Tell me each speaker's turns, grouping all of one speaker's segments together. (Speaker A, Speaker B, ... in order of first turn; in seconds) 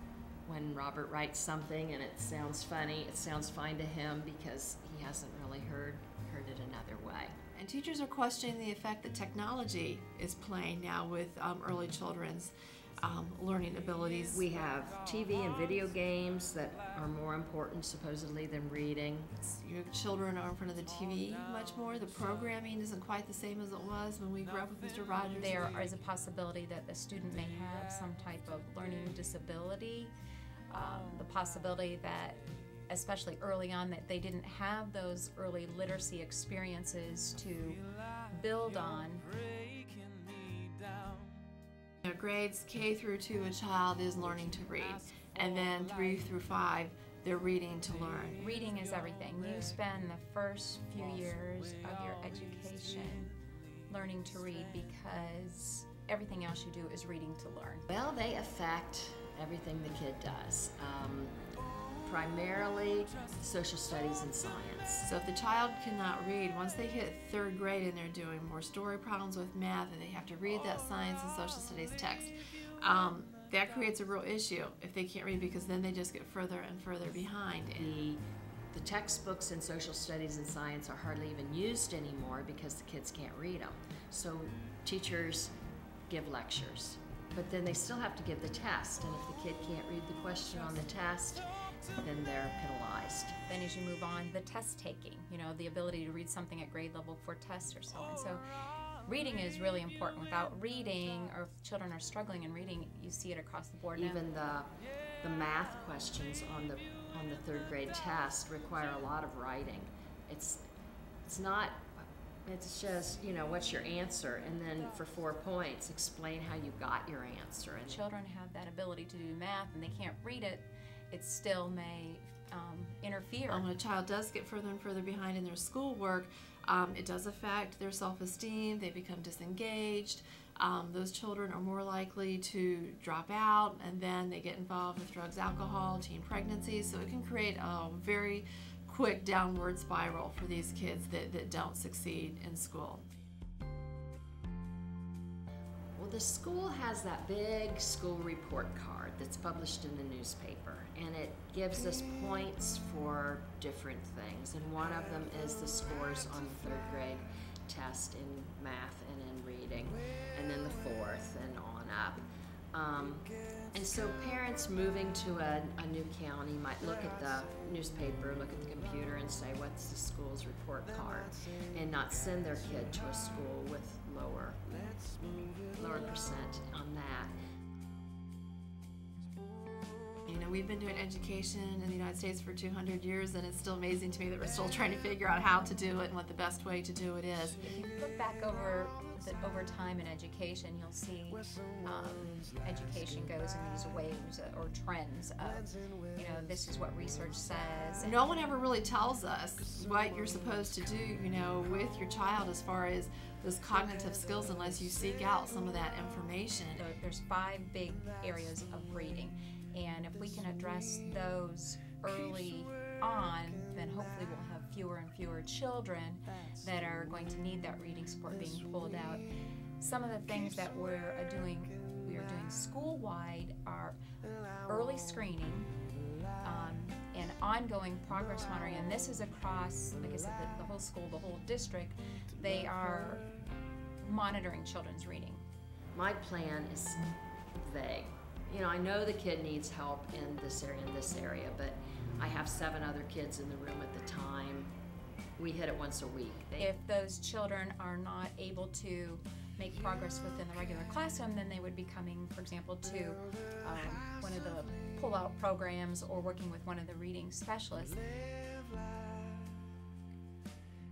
Speaker A: 0.5-7.4, 14.3-19.3, 57.9-61.4, 62.0-65.1, 77.8-78.2, 78.7-85.5, 86.1-93.3, 104.0-104.7, 105.2-110.6, 111.3-118.0, 146.0-174.7, 175.6-177.3, 235.9-244.7, 245.4-246.7
Speaker B: 7.6-14.5, 19.4-25.7, 42.0-48.4, 65.0-77.9, 123.5-143.1, 180.3-187.6, 198.0-206.8
Speaker C: 25.4-30.1, 30.7-39.3, 48.4-53.3, 53.9-57.9, 93.5-98.4, 99.0-104.2, 117.9-123.7, 187.6-198.2, 206.8-219.2, 219.8-224.0, 224.6-225.7, 226.4-233.2, 234.0-235.4, 246.6-258.0